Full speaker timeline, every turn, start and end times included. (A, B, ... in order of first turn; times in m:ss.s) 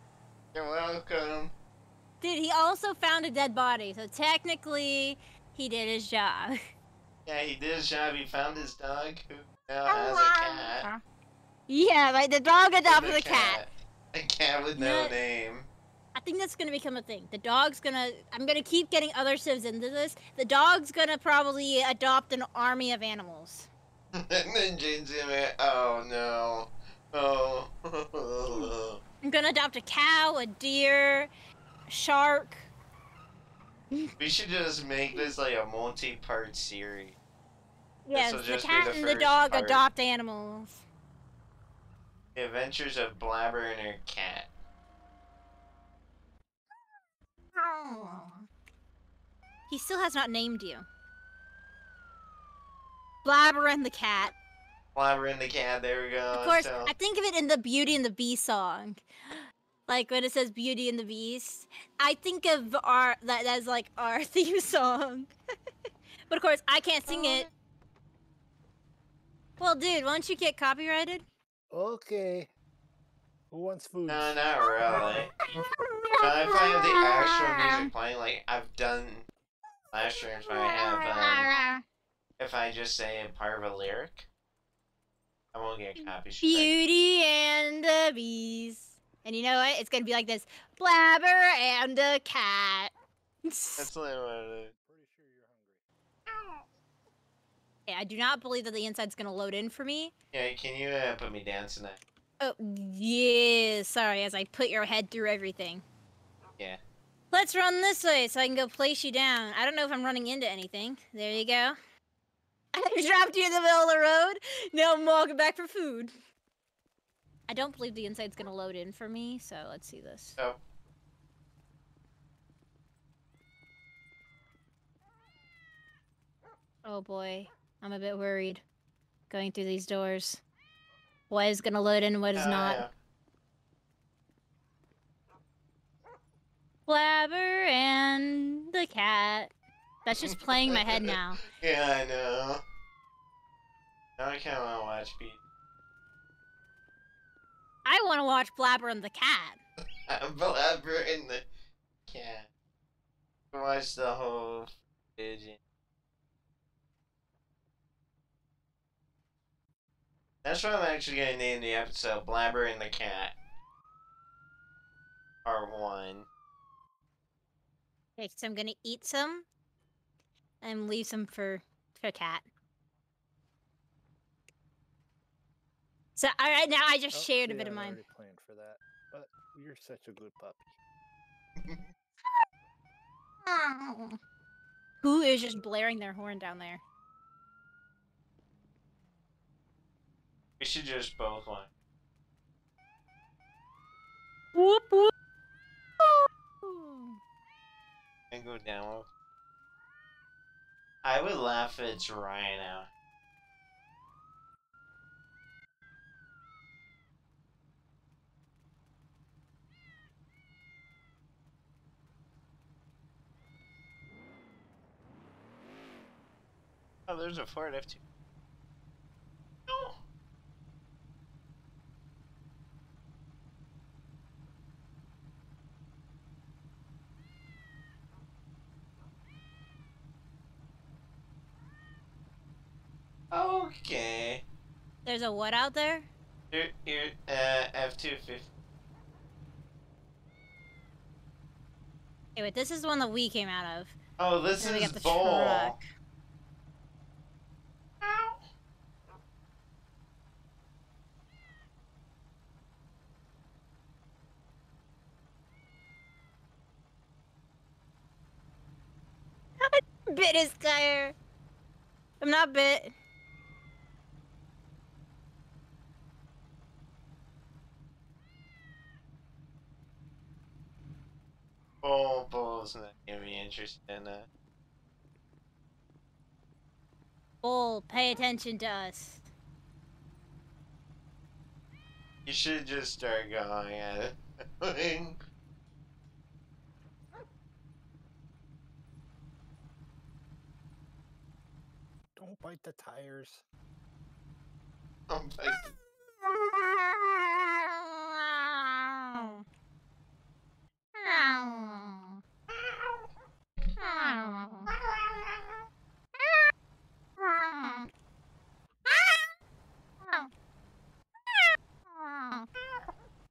0:00.5-0:01.5 A
0:02.2-0:06.6 B
0:07.2-0:10.9 A
0:09.9-0:11.0 B
0:11.7-0:13.6 B
0:12.9-0:15.7 A
0:14.7-0:15.1 B
0:16.1-0:23.7 B
0:24.1-0:29.0 A
0:29.2-0:31.3 B
0:31.9-0:32.7 B
0:34.2-0:37.2 A
0:38.0-0:40.8 B
0:38.1-0:39.8 A
0:42.3-0:44.5 A
0:47.6-0:48.4 B
0:49.7-0:50.8 B
0:53.2-0:54.3 B
0:54.9-0:56.9 A
0:56.3-1:05.3 B
1:06.3-1:07.5 B
1:09.6-1:11.2 B
1:11.7-1:12.5 C
1:13.5-1:15.1 C
1:14.1-1:15.3 A
1:16.0-1:17.8 B
1:16.2-1:19.2 A
1:19.9-1:21.5 A
1:20.5-1:21.8 B
1:22.4-1:24.2 A
1:25.5-1:26.7 A
1:26.4-1:32.9 B
1:33.4-1:33.8 B
1:33.8-1:34.7 A
1:34.8-1:35.8 C
1:37.9-1:40.1 B
1:40.3-1:42.0 A
1:42.4-1:45.8 B
1:47.3-1:51.7 B
1:52.7-1:56.1 B
1:57.5-2:00.4 B
2:06.8-2:08.6 B
2:09.3-2:10.4 B
2:11.3-2:12.9 B
2:12.3-2:12.9 A
2:16.9-2:19.5 B
2:20.0-2:21.4 B
2:20.2-2:22.6 A
2:24.2-2:25.4 A
2:27.8-2:29.6 B
2:30.1-2:31.4 A
2:32.1-2:32.5 A
2:33.5-2:35.6 A
2:40.4-2:43.4 A
2:45.4-2:46.3 A
2:48.2-2:49.4 B
2:50.6-2:52.4 B
2:56.2-2:58.0 B
2:57.1-3:00.7 C
3:03.5-3:04.2 B
3:05.0-3:06.8 B
3:10.6-3:11.7 A
3:14.5-3:15.1 B
3:16.0-3:17.2 B
3:18.3-3:19.1 A
3:21.0-3:22.9 A
3:37.1-3:38.0 A
3:39.7-3:40.0 A
3:53.3-3:54.4 A
3:55.0-3:56.1 B
3:56.5-3:58.5 A
4:02.4-4:04.0 B
4:04.2-4:05.7 A
4:04.6-4:05.8 B
4:08.0-4:08.4 A
4:19.6-4:21.1 B
4:22.2-4:22.9 B
4:31.8-4:34.3 A
4:37.4-4:39.2 B
4:42.2-4:45.2 A
4:52.2-4:53.4 C
4:55.1-4:55.7 A
4:56.4-4:59.4 B
5:00.9-5:02.2 B
5:02.5-5:03.0 A
5:03.8-5:04.7 B
5:04.7-5:05.5 A
5:07.2-5:07.9 B
5:08.9-5:09.2 B
5:11.9-5:12.5 B